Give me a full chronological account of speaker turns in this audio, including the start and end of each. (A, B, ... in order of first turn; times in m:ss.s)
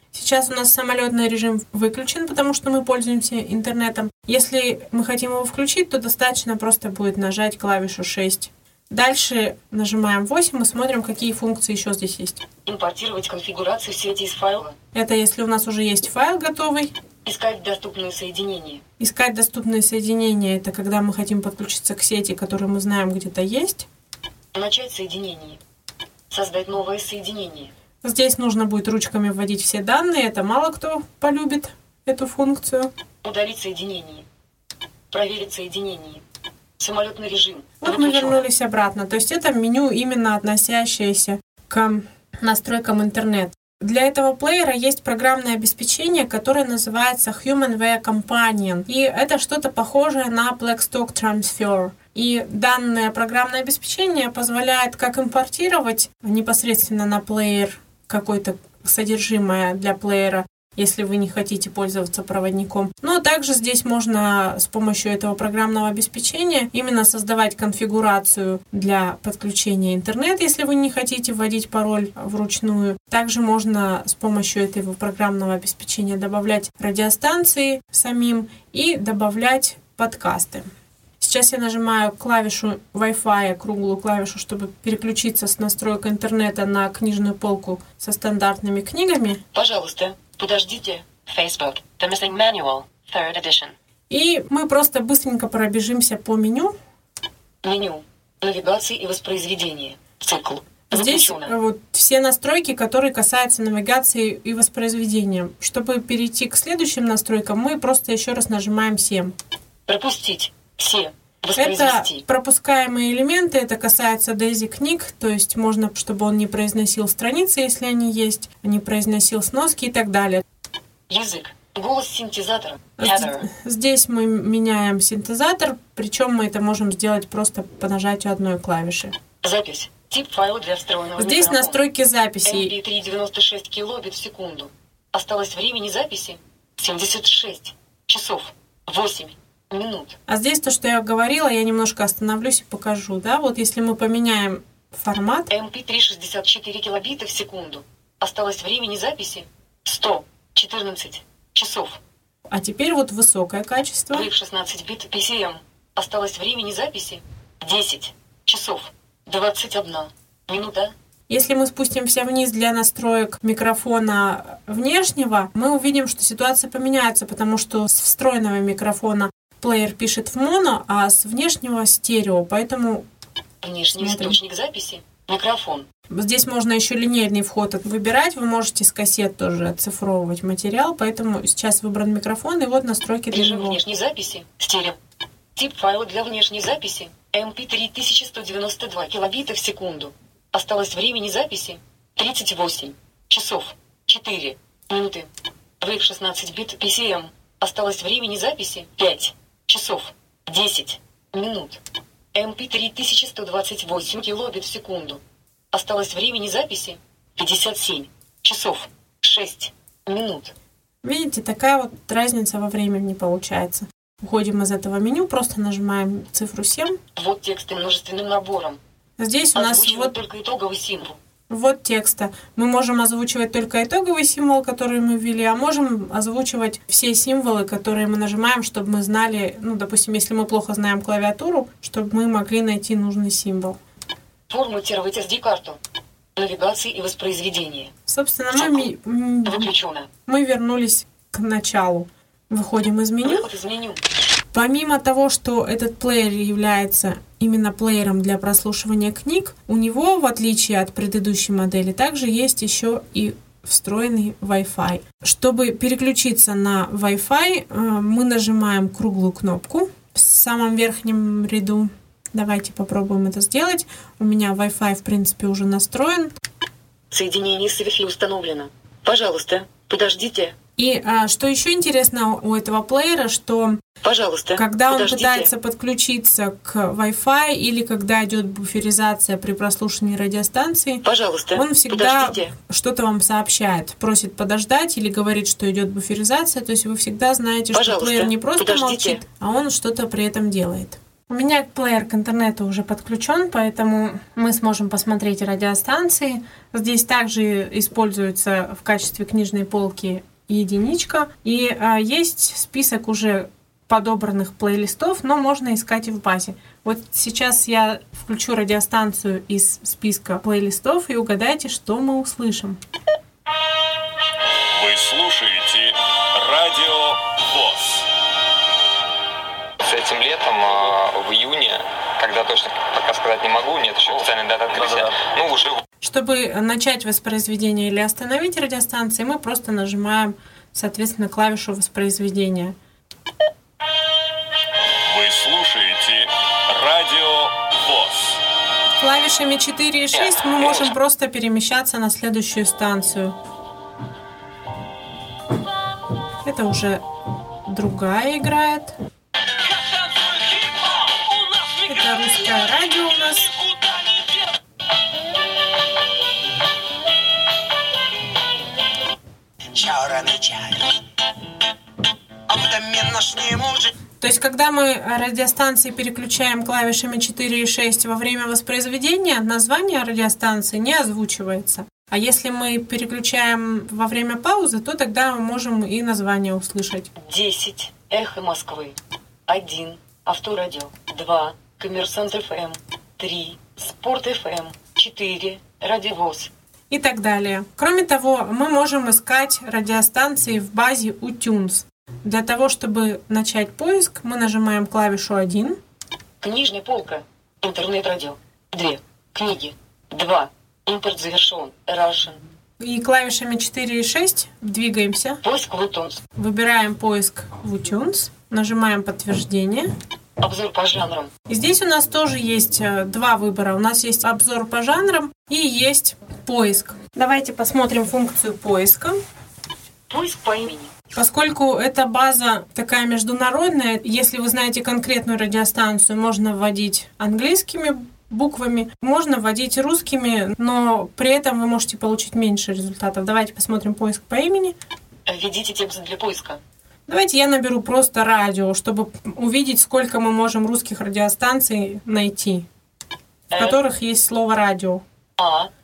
0:00.1-0:12.4 A
0:12.6-0:14.8 B
0:15.0-0:16.9 A
0:17.2-0:18.8 B
0:19.0-0:23.9 A
0:24.5-0:25.6 B
0:26.3-0:27.7 B
0:28.0-0:32.9 A
0:33.2-0:34.3 B
0:35.1-0:36.2 B
0:36.8-0:38.4 B
0:37.8-1:20.7 A
1:21.2-1:29.4 A
1:29.5-1:31.2 B
1:31.2-1:33.8 C
1:34.1-1:36.8 A
1:37.6-1:41.5 B
1:40.9-1:49.4 A
1:49.9-1:52.2 B
1:51.6-2:00.4 A
2:01.1-2:03.5 B
2:03.0-2:09.2 A
2:09.4-2:11.8 B
2:11.2-2:12.7 A
2:12.4-2:20.2 B
2:20.3-2:25.5 A
2:25.5-2:32.0 B
2:32.5-2:34.3 A
2:34.1-2:40.9 B
2:41.3-2:53.0 A
2:53.6-2:55.9 B
2:54.0-2:54.4 A
2:56.1-3:03.8 A
3:03.3-3:05.0 B
3:05.6-3:15.3 B
3:15.8-3:21.8 B
3:22.3-3:25.2 B
3:25.7-3:30.5 B
3:31.0-3:37.0 A
3:37.2-3:38.8 B
3:39.2-3:40.2 A
3:39.6-3:41.2 B
3:41.5-3:53.8 A
3:54.5-3:55.8 B
3:56.4-3:57.9 B
3:58.1-3:59.7 A
3:58.5-3:58.9 B
3:59.5-4:00.1 B
4:00.3-4:03.5 A
4:03.2-4:04.0 B
4:04.5-4:26.3 A
4:27.1-4:30.6 B
4:30.8-4:33.8 A
4:34.0-4:35.5 B
4:34.6-5:12.8 A
4:41.0-4:42.5 B
4:47.7-4:49.2 B
5:14.7-5:18.1 D
5:19.8-5:25.8 E
5:26.0-5:32.8 A
5:35.1-5:38.4 D
5:39.0-5:43.4 A
5:40.2-5:40.9 E
5:46.4-5:47.0 A
5:47.7-5:48.9 A
5:50.3-5:50.8 D
5:51.8-5:53.6 A
6:02.5-6:03.4 B
6:04.2-6:17.1 A
6:17.2-6:19.0 B
6:19.5-6:26.5 B
6:26.9-6:35.8 A
6:36.4-6:42.4 B
6:42.8-6:45.4 A
6:45.4-6:46.2 B
6:46.4-6:49.9 A
6:50.4-6:51.3 B
6:51.5-6:59.2 A
7:00.1-7:00.9 B
7:01.2-7:14.8 A
7:15.3-7:16.6 B
7:17.1-7:22.7 A
7:23.5-7:23.8 B
7:23.5-7:25.0 A
7:25.4-7:25.7 B